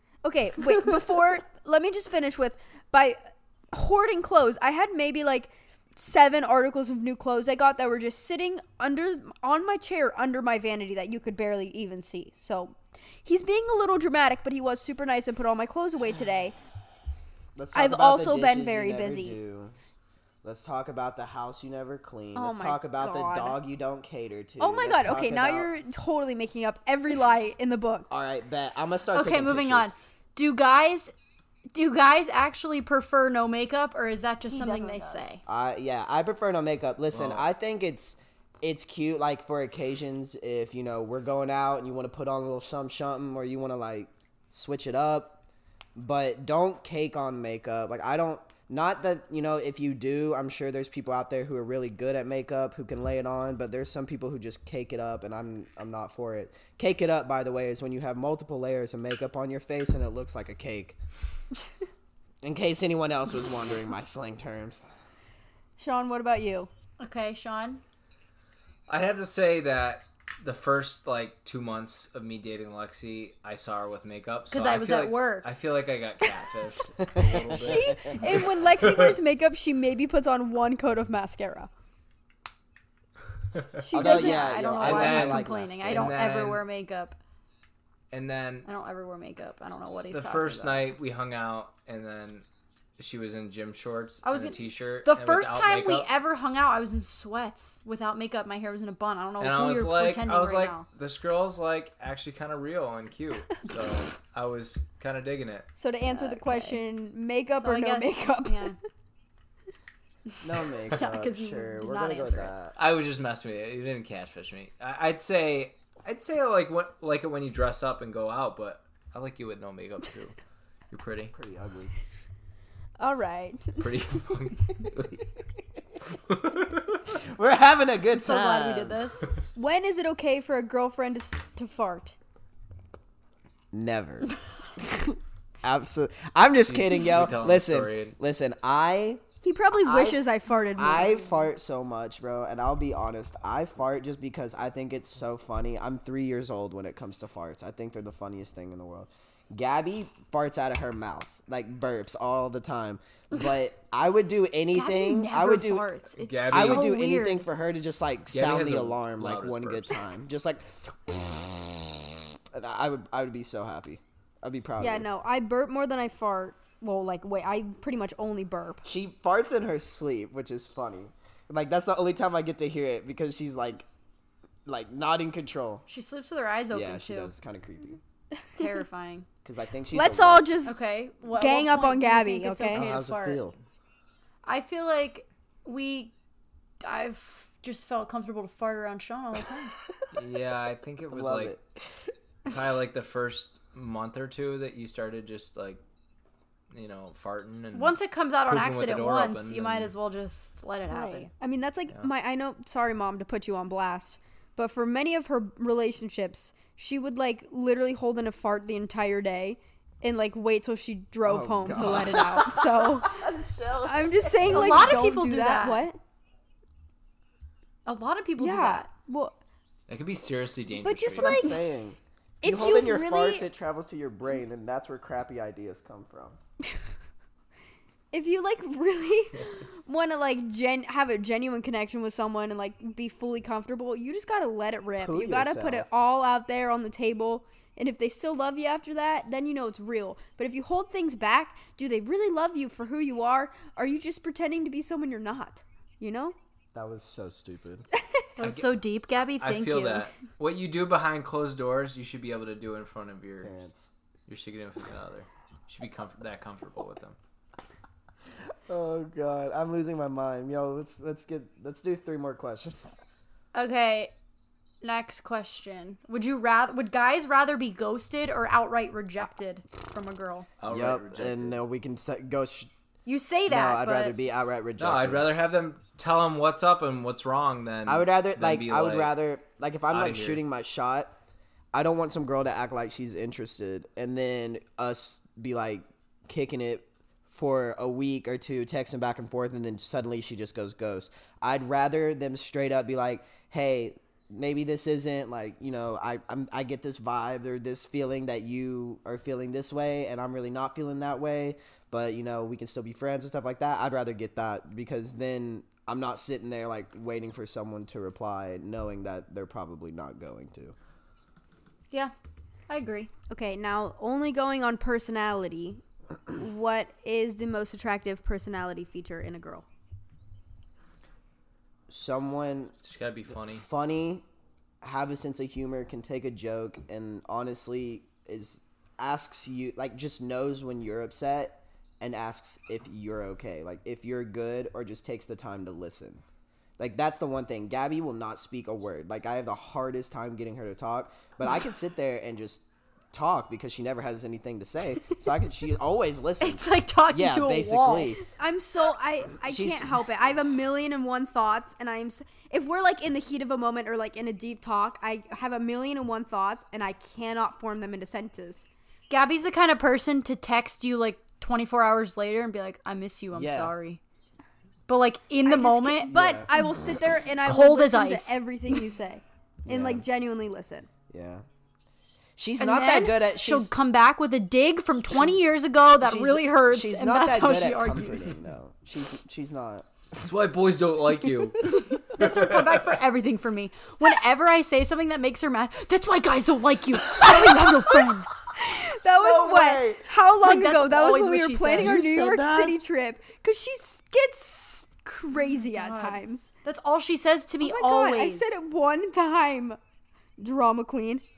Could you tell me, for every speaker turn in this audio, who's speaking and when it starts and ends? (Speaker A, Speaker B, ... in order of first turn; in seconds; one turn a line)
Speaker A: 0.2-16.5
Speaker B: 17.6-19.7
Speaker A: 17.7-19.4
Speaker B: 20.4-25.7
Speaker A: 22.3-23.6
Speaker A: 24.6-28.1
Speaker B: 28.1-29.9
Speaker C: 29.1-31.1
Speaker C: 31.7-35.4
Speaker A: 34.5-35.2
Speaker B: 35.5-45.4
Speaker D: 37.1-37.4
Speaker B: 46.0-61.0
Speaker B: 62.4-64.8
Speaker A: 65.8-66.7
Speaker C: 67.0-67.8
Speaker D: 68.9-79.0
Speaker C: 74.5-75.5
Speaker B: 77.0-78.1
Speaker A: 77.5-81.7
Speaker C: 83.8-87.2
Speaker A: 83.9-84.6
Speaker B: 83.9-86.1
Speaker D: 84.7-86.6
Speaker D: 88.1-88.7
Speaker C: 88.6-90.9
Speaker D: 90.1-92.4
Speaker D: 93.0-96.1
Speaker C: 94.2-100.8
Speaker D: 99.4-105.7
Speaker A: 105.8-108.7
Speaker C: 106.1-106.8
Speaker C: 107.6-108.8
Speaker B: 110.4-112.8
Speaker C: 110.9-112.5
Speaker D: 112.8-120.4
Speaker D: 120.9-121.3
Speaker B: 121.3-121.9
Speaker A: 123.0-123.9
Speaker D: 123.8-125.2
Speaker D: 126.2-127.2
Speaker B: 127.1-129.0
Speaker C: 128.1-129.3
Speaker A: 129.6-132.2
Speaker B: 133.7-139.2
Speaker D: 136.7-138.1
Speaker A: 139.4-141.3
Speaker B: 139.8-140.2
Speaker C: 140.5-141.2
Speaker B: 140.8-155.9
Speaker C: 154.7-157.5
Speaker D: 156.2-156.9
Speaker B: 156.5-165.1
Speaker D: 158.3-159.9
Speaker A: 164.8-168.8
Speaker B: 168.8-173.8
Speaker B: 174.6-175.8
Speaker C: 175.9-177.3
Speaker B: 176.7-178.0
Speaker C: 178.4-179.3
Speaker B: 179.4-180.5
Speaker A: 179.9-182.9
Speaker C: 180.6-183.4
Speaker B: 182.7-183.6
Speaker C: 184.4-186.1
Speaker C: 186.8-189.7
Speaker D: 190.1-191.6
Speaker B: 191.1-191.6
Speaker D: 192.5-195.8
Speaker D: 196.7-199.9
Speaker C: 197.7-201.3
Speaker A: 200.9-213.2
Speaker B: 211.2-214.9
Speaker A: 213.8-216.0
Speaker C: 214.4-215.8
Speaker C: 217.8-218.9
Speaker A: 218.4-219.3
Speaker D: 219.9-221.6
Speaker A: 220.8-221.6
Speaker B: 221.1-226.4
Speaker A: 222.4-223.5
Speaker A: 228.1-246.3
Speaker B: 235.0-235.9
Speaker B: 246.7-247.9
Speaker C: 248.4-250.1
Speaker D: 248.4-248.7
Speaker D: 249.4-253.5
Speaker B: 253.4-253.9
Speaker D: 254.3-257.1
Speaker B: 258.7-263.0
Speaker C: 263.5-264.1
Speaker C: 264.8-270.5
Speaker D: 270.6-271.6
Speaker B: 270.7-272.7
Speaker C: 273.1-274.1
Speaker B: 273.5-275.3
Speaker D: 274.8-279.1
Speaker B: 277.9-281.1
Speaker D: 279.9-280.4
Speaker B: 281.7-310.7
Speaker C: 312.7-313.1
Speaker A: 313.3-315.8
Speaker A: 316.3-319.6
Speaker B: 321.9-322.7
Speaker D: 322.8-323.6
Speaker B: 323.4-324.2
Speaker B: 324.8-336.2
Speaker B: 336.8-348.2
Speaker C: 346.4-348.2
Speaker A: 348.4-358.6
Speaker B: 349.4-350.0
Speaker C: 359.1-364.0
Speaker B: 363.3-363.7
Speaker C: 364.9-366.1
Speaker A: 365.4-370.9
Speaker B: 366.1-366.5
Speaker C: 367.4-368.4
Speaker B: 369.7-370.0
Speaker B: 371.1-371.4
Speaker B: 372.4-373.7
Speaker C: 372.6-378.4
Speaker B: 375.1-375.4
Speaker B: 376.0-380.3
Speaker D: 380.2-381.6
Speaker B: 381.3-381.8
Speaker C: 381.7-388.4
Speaker D: 382.1-382.8
Speaker A: 388.6-396.5
Speaker B: 389.2-390.1
Speaker C: 390.4-392.0
Speaker B: 391.7-392.8
Speaker C: 395.3-398.5
Speaker A: 397.6-399.8
Speaker A: 400.4-401.2